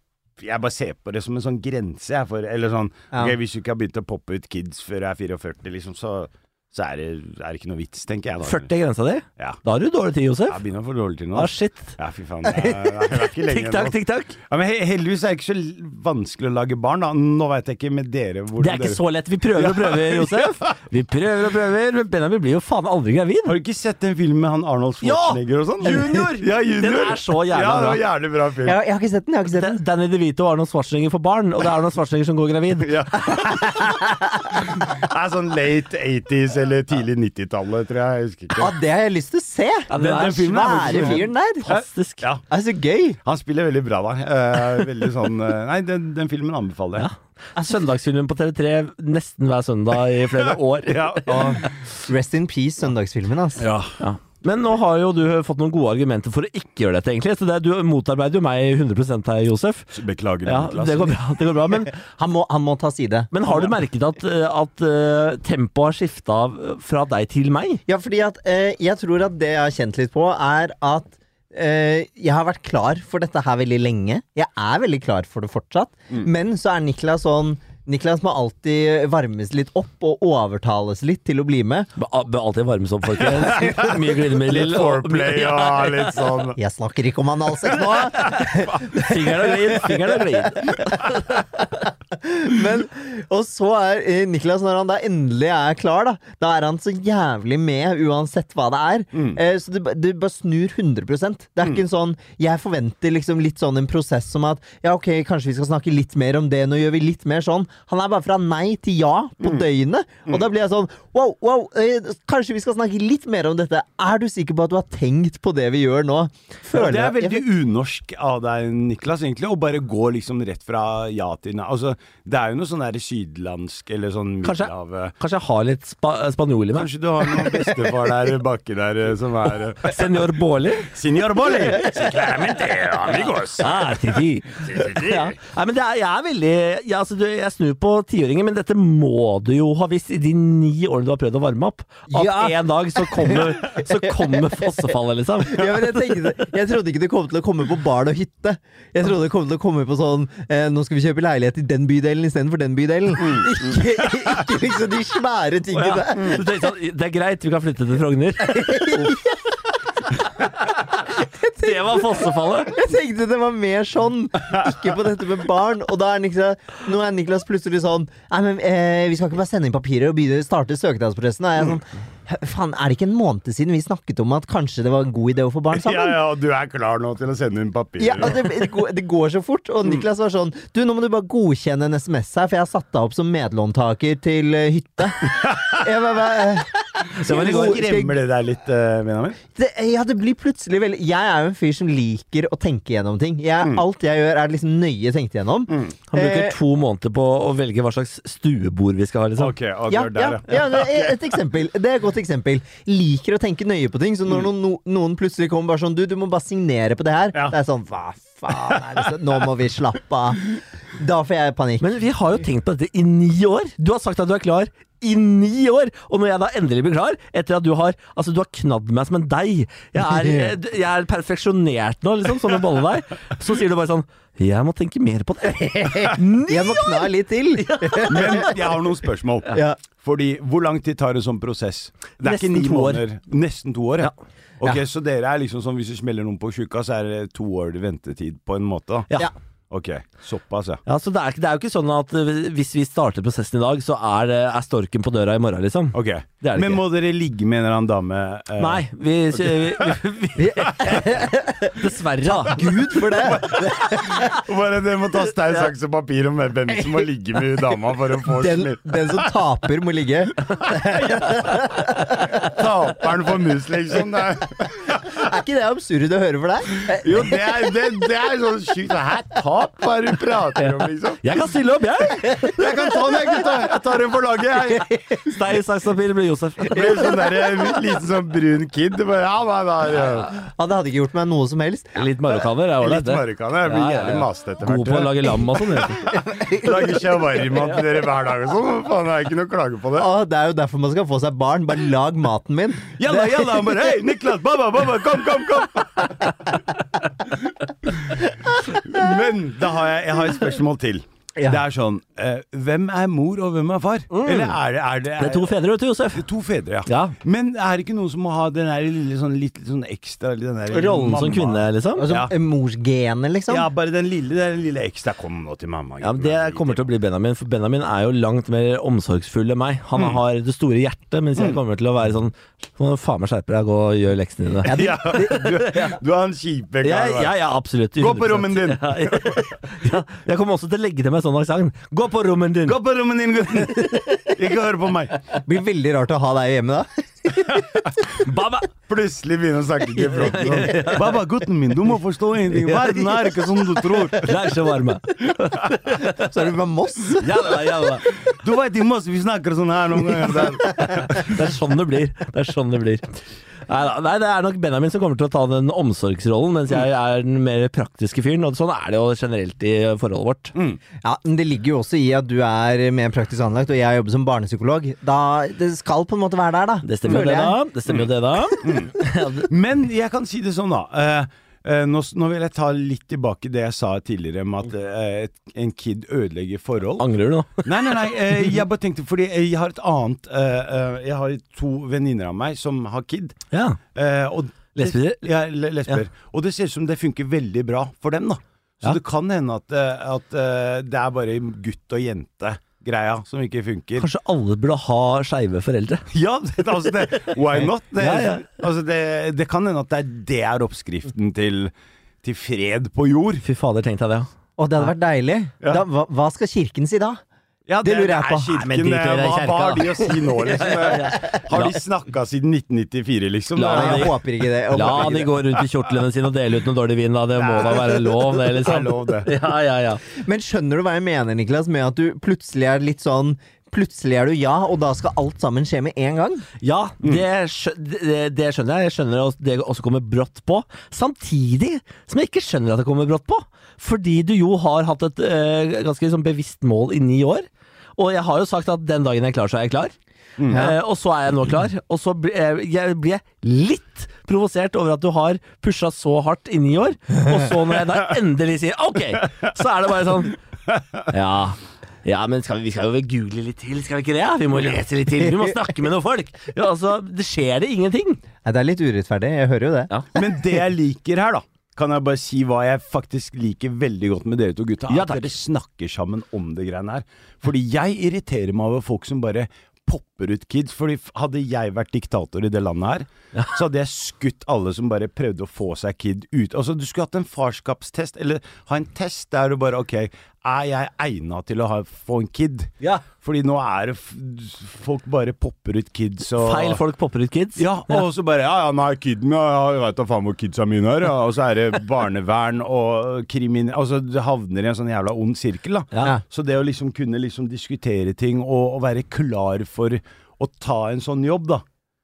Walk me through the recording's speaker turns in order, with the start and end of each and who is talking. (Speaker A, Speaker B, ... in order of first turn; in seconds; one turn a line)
Speaker A: 0.4-8.7
Speaker B: 8.4-10.6
Speaker A: 10.5-19.0
Speaker B: 11.3-11.9
Speaker B: 13.4-14.3
Speaker B: 18.6-23.6
Speaker A: 19.6-20.7
Speaker A: 23.5-28.8
Speaker B: 25.0-28.0
Speaker C: 28.6-29.8
Speaker B: 29.5-32.9
Speaker A: 32.8-34.0
Speaker C: 33.8-34.5
Speaker A: 34.5-38.7
Speaker C: 38.6-41.7
Speaker B: 39.9-42.2
Speaker A: 39.9-42.4
Speaker C: 42.5-43.2
Speaker A: 43.2-47.1
Speaker B: 47.0-51.6
Speaker A: 50.9-51.7
Speaker C: 51.3-53.7
Speaker A: 53.6-54.0
Speaker B: 54.0-59.9
Speaker A: 59.9-61.2
Speaker B: 60.5-61.9
Speaker C: 61.9-63.3
Speaker B: 63.3-67.8
Speaker C: 67.9-81.9
Speaker B: 82.0-86.2
Speaker A: 83.4-86.6
Speaker C: 86.6-117.4
Speaker B: 88.2-91.4
Speaker A: 99.1-99.4
Speaker A: 116.7-125.2
Speaker B: 124.4-126.9
Speaker A: 126.8-135.3
Speaker B: 129.8-130.9
Speaker B: 133.6-146.1
Speaker C: 142.1-144.9
Speaker C: 145.4-156.5
Speaker A: 153.2-153.6
Speaker B: 155.7-159.2
Speaker C: 158.4-159.4
Speaker B: 160.6-161.0
Speaker C: 161.0-176.2
Speaker B: 161.5-162.7
Speaker A: 175.7-178.5
Speaker C: 178.0-188.2
Speaker A: 185.4-185.8
Speaker A: 187.1-189.4
Speaker C: 189.6-196.6
Speaker A: 195.7-195.9
Speaker B: 196.1-199.6
Speaker A: 199.4-201.2
Speaker C: 199.9-212.0
Speaker A: 208.6-209.1
Speaker B: 211.8-228.5
Speaker C: 220.0-220.5
Speaker C: 226.2-228.5
Speaker A: 228.0-239.1
Speaker C: 229.5-229.8
Speaker B: 232.2-233.0
Speaker A: 239.7-240.8
Speaker B: 240.9-246.8
Speaker A: 245.9-250.0
Speaker B: 248.6-252.8
Speaker C: 250.4-254.4
Speaker A: 253.0-259.3
Speaker C: 258.3-262.5
Speaker A: 260.7-261.3
Speaker A: 262.2-265.3
Speaker C: 265.1-267.5
Speaker A: 266.8-271.2
Speaker B: 271.2-272.5
Speaker A: 272.2-274.9
Speaker C: 272.3-272.6
Speaker C: 274.8-275.2
Speaker B: 275.2-276.9
Speaker A: 276.7-280.4
Speaker C: 276.8-277.6
Speaker C: 280.4-282.0
Speaker B: 281.9-286.1
Speaker A: 282.8-290.1
Speaker C: 286.1-287.2
Speaker C: 290.0-293.9
Speaker A: 293.0-296.4
Speaker A: 297.9-305.5
Speaker C: 301.4-301.6
Speaker B: 304.1-304.6
Speaker B: 305.2-306.2
Speaker A: 306.1-312.3
Speaker B: 306.9-307.2
Speaker B: 310.7-312.1
Speaker C: 312.0-313.7
Speaker A: 313.5-316.9
Speaker B: 316.0-326.0
Speaker C: 324.6-325.5
Speaker A: 324.7-327.3
Speaker B: 326.8-332.8
Speaker A: 328.0-329.6
Speaker A: 332.7-335.2
Speaker C: 335.4-337.8
Speaker A: 337.6-337.9
Speaker B: 338.2-338.7
Speaker A: 338.9-344.4
Speaker B: 340.0-341.2
Speaker B: 342.6-343.0
Speaker B: 344.1-346.3
Speaker C: 346.0-347.4
Speaker B: 347.2-348.1
Speaker A: 348.2-351.4
Speaker B: 350.6-353.2
Speaker B: 353.7-360.6
Speaker A: 360.6-360.8
Speaker C: 361.0-367.6
Speaker B: 366.8-369.5
Speaker A: 368.6-377.1
Speaker B: 377.0-377.7
Speaker A: 377.6-383.4
Speaker B: 383.5-383.8
Speaker A: 383.9-394.1
Speaker B: 384.8-385.3
Speaker B: 394.0-396.1
Speaker A: 396.1-401.7
Speaker B: 398.0-398.5
Speaker A: 402.2-403.4
Speaker B: 403.4-404.3
Speaker C: 404.6-407.2
Speaker A: 407.7-414.2
Speaker C: 407.8-410.1
Speaker B: 408.7-411.8
Speaker B: 413.6-420.0
Speaker C: 413.7-415.4
Speaker A: 414.8-415.2
Speaker A: 417.4-419.3
Speaker C: 420.1-426.5
Speaker B: 426.6-437.5
Speaker B: 438.0-439.9
Speaker A: 440.4-440.7
Speaker B: 440.5-450.4
Speaker B: 451.1-458.2
Speaker C: 458.4-460.4
Speaker A: 460.1-486.8
Speaker B: 464.9-465.3
Speaker B: 486.4-488.0
Speaker A: 487.6-501.6